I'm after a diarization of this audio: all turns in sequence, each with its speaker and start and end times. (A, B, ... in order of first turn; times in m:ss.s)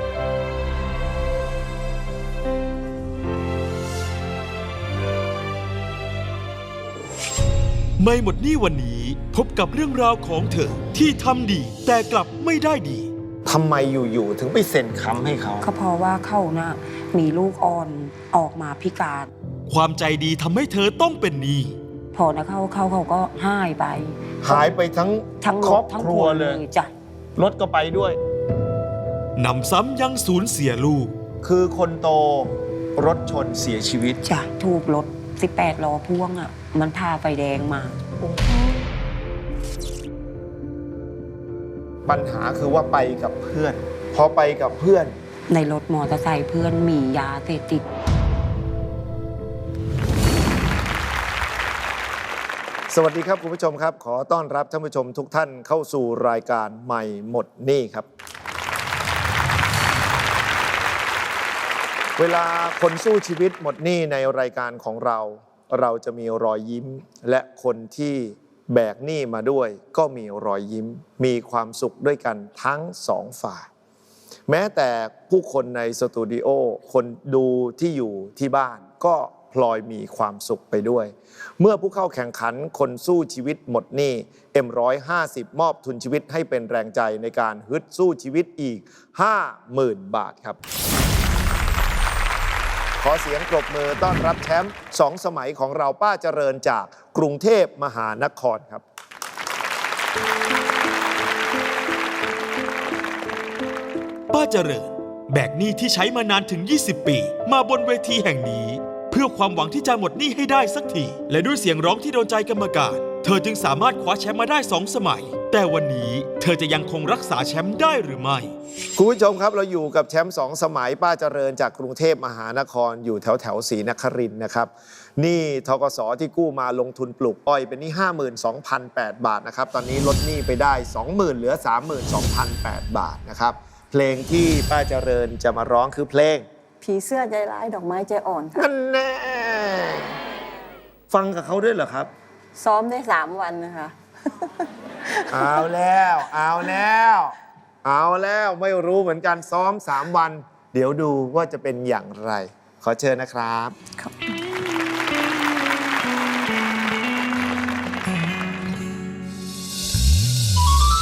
0:08.0-0:13.1 A
0:13.4-0:15.6 B
0:15.6-0:19.3 C
0:19.7-0:21.8 A
0:22.1-0:24.7 C
0:24.4-0:26.6 B
0:25.4-0:26.9 C
0:27.4-0:28.2 B
0:29.4-0:31.1 A
0:31.4-0:34.2 B
0:34.2-0:38.0 C
0:42.0-0:45.1 B
0:45.5-0:47.8 C
0:52.9-0:58.1 B
1:02.2-1:13.7 B
1:14.5-1:30.6 B
1:33.0-1:38.8 B
1:44.3-1:58.5 A
1:59.0-2:16.4 B
2:16.8-2:18.6 D
2:18.5-2:20.1 B
2:21.1-2:22.1 B
2:22.5-2:23.9 D
2:25.1-2:25.5 D
2:25.3-2:33.7 B
2:34.0-2:34.3 D